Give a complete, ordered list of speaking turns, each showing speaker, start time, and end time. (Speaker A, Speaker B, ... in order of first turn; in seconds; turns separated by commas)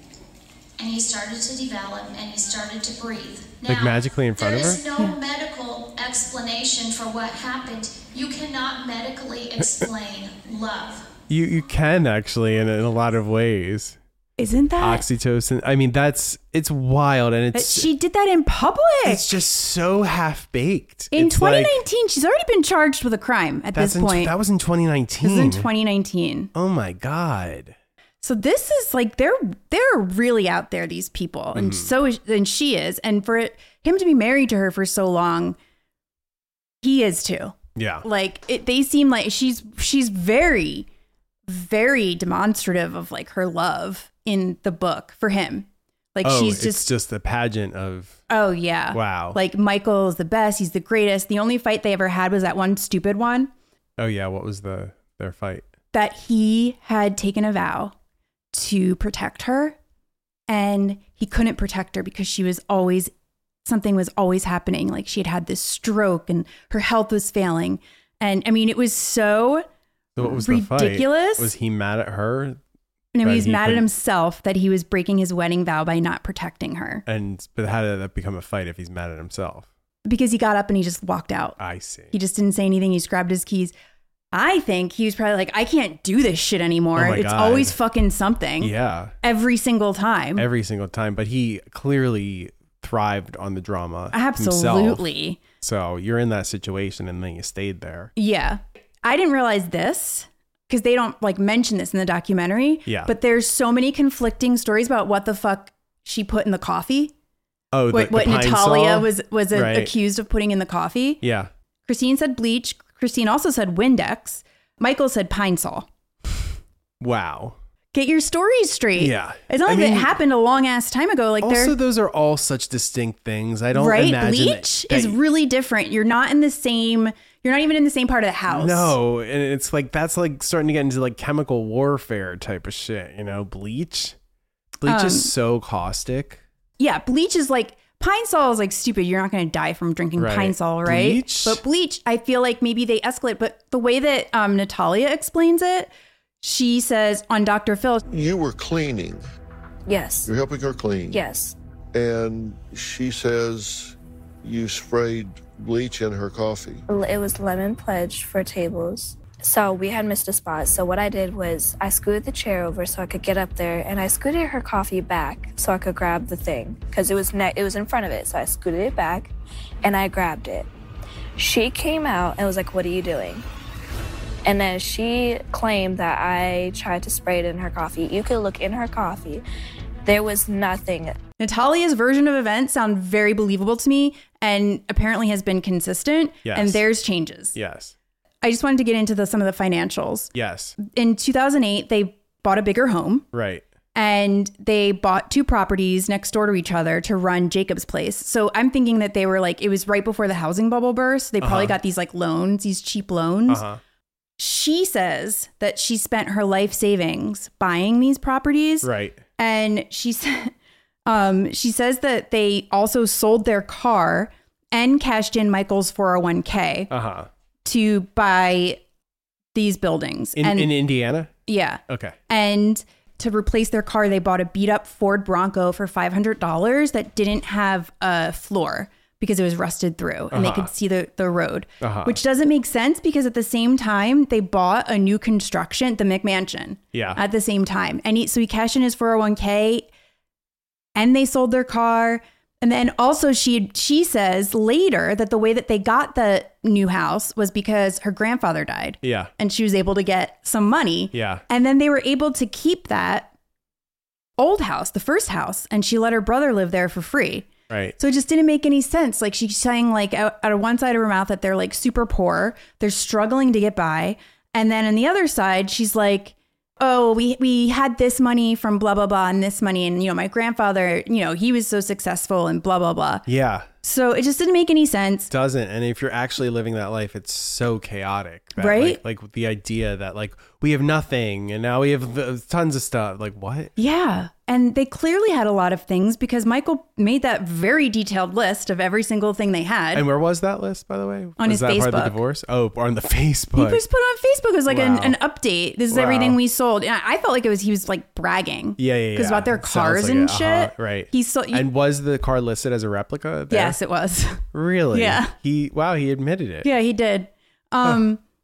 Speaker A: 0.8-11.1, Speaker B: 3.6-4.8, Speaker B: 9.6-9.8, Speaker B: 11.3-14.0, Speaker C: 14.4-15.0, Speaker B: 14.8-17.9, Speaker C: 17.5-19.2, Speaker B: 19.0-21.8, Speaker C: 21.1-24.3, Speaker B: 23.7-25.7, Speaker C: 25.2-26.5, Speaker B: 26.5-27.7, Speaker C: 28.2-35.6, Speaker B: 31.5-31.9, Speaker C: 36.8-40.9, Speaker B: 37.8-38.0, Speaker C: 41.5-46.9, Speaker B: 46.2-48.2, Speaker C: 48.3-53.5, Speaker B: 48.9-49.4, Speaker B: 54.0-55.6, Speaker C: 55.9-57.9, Speaker C: 58.5-59.8, Speaker C: 60.5-63.1, Speaker C: 63.6-69.6, Speaker B: 70.2-72.6, Speaker C: 70.2-71.5, Speaker C: 73.1-77.0, Speaker B: 73.2-73.9, Speaker B: 77.0-79.7, Speaker C: 80.0-81.6, Speaker B: 81.6-82.1, Speaker C: 82.1-83.7, Speaker C: 84.3-90.5, Speaker B: 86.9-87.8, Speaker B: 88.6-89.1, Speaker B: 90.3-95.1, Speaker C: 94.1-95.4, Speaker B: 95.6-98.1, Speaker C: 98.2-107.1, Speaker B: 102.8-103.1, Speaker B: 107.7-109.9, Speaker C: 107.9-111.2, Speaker B: 111.2-111.5, Speaker C: 111.8-115.9, Speaker B: 117.0-117.6, Speaker C: 117.9-121.7, Speaker B: 119.0-120.1, Speaker B: 121.4-125.2, Speaker C: 123.7-128.9, Speaker B: 128.5-134.2, Speaker B: 134.8-136.4, Speaker C: 134.8-135.3, Speaker C: 136.8-145.9, Speaker B: 140.2-141.6, Speaker C: 146.4-148.0, Speaker D: 148.1-149.2, Speaker E: 149.9-150.3, Speaker D: 150.3-151.2, Speaker E: 151.1-151.6, Speaker D: 151.9-156.8, Speaker E: 156.9-170.7, Speaker E: 171.4-173.4, Speaker E: 174.4-179.4, Speaker E: 180.0-181.2, Speaker C: 181.4-187.6, Speaker B: 186.4-186.8, Speaker B: 187.5-187.9, Speaker C: 188.4-193.2, Speaker B: 190.3-190.8, Speaker B: 193.3-193.6, Speaker C: 193.9-203.6, Speaker B: 201.4-201.8, Speaker B: 203.5-203.8, Speaker C: 204.4-210.5, Speaker B: 208.8-209.2, Speaker C: 211.1-216.9, Speaker B: 216.9-217.3, Speaker C: 217.6-218.8, Speaker C: 219.5-220.7, Speaker B: 220.3-221.3, Speaker C: 221.4-239.9, Speaker B: 221.9-222.2, Speaker B: 230.3-230.7, Speaker B: 231.8-232.2, Speaker B: 236.9-237.2, Speaker C: 240.9-253.3, Speaker B: 249.0-249.3, Speaker B: 251.1-251.4, Speaker C: 254.4-273.2, Speaker B: 257.7-257.9, Speaker B: 273.2-273.7, Speaker C: 273.8-275.3, Speaker B: 275.3-283.7, Speaker C: 278.6-279.0, Speaker C: 283.8-290.1, Speaker B: 289.9-293.8, Speaker C: 291.4-292.2, Speaker C: 293.5-301.7, Speaker B: 294.7-295.2, Speaker B: 295.9-296.4, Speaker B: 298.8-303.8, Speaker C: 303.5-305.3, Speaker B: 304.5-306.7, Speaker C: 306.6-308.2